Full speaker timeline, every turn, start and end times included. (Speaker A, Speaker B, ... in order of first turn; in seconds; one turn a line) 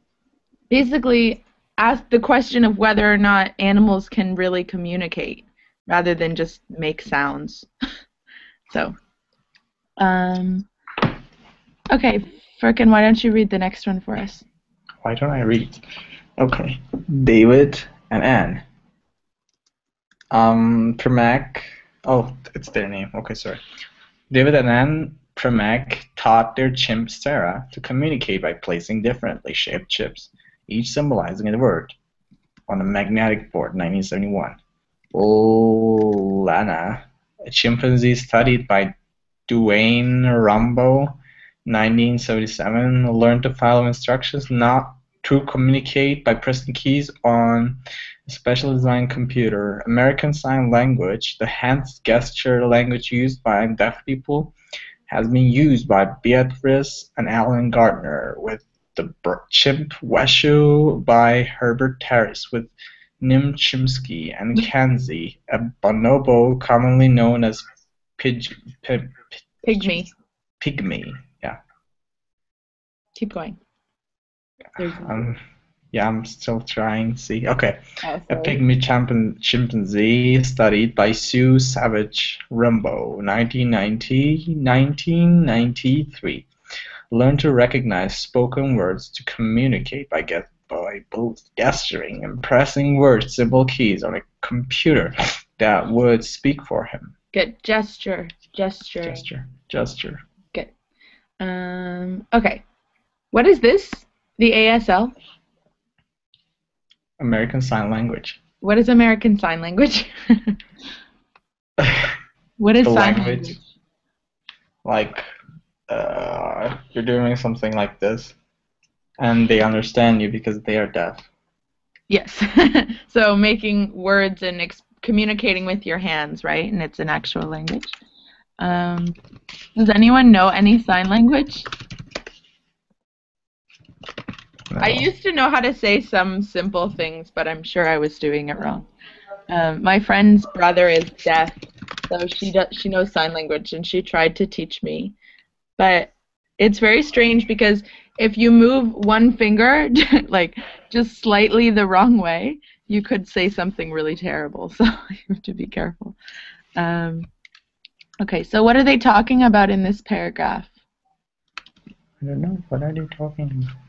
Speaker A: 0.7-7.7
Speaker A: 8.7-8.9
Speaker A: 10.0-10.7
Speaker A: 11.9-14.4
Speaker B: 15.0-15.8
Speaker B: 16.4-18.6
Speaker B: 20.3-23.6
Speaker B: 24.3-31.9
Speaker B: 32.7-34.6
Speaker B: 35.1-38.9
Speaker B: 39.5-54.5
Speaker B: 55.1-67.6
Speaker B: 68.2-70.0
Speaker A: 69.6-70.1
Speaker B: 70.6-71.6
Speaker A: 73.2-73.6
Speaker A: 74.8-75.2
Speaker B: 74.8-75.4
Speaker B: 75.9-86.5
Speaker A: 78.0-78.6
Speaker B: 87.1-97.1
Speaker A: 97.3-99.3
Speaker B: 99.0-100.2
Speaker A: 101.4-102.6
Speaker A: 103.3-105.1
Speaker B: 107.2-108.4
Speaker A: 108.6-110.6
Speaker B: 111.8-112.2
Speaker A: 112.6-113.6
Speaker B: 112.8-113.6
Speaker B: 114.8-115.2
Speaker B: 115.9-118.3
Speaker B: 119.2-121.2
Speaker A: 122.1-128.0
Speaker A: 128.6-129.2
Speaker A: 129.8-131.7
Speaker B: 134.7-135.1
Speaker A: 134.8-138.9
Speaker A: 139.5-145.1
Speaker A: 145.8-156.2
Speaker A: 156.8-157.3
Speaker A: 158.2-160.7
Speaker B: 162.2-163.7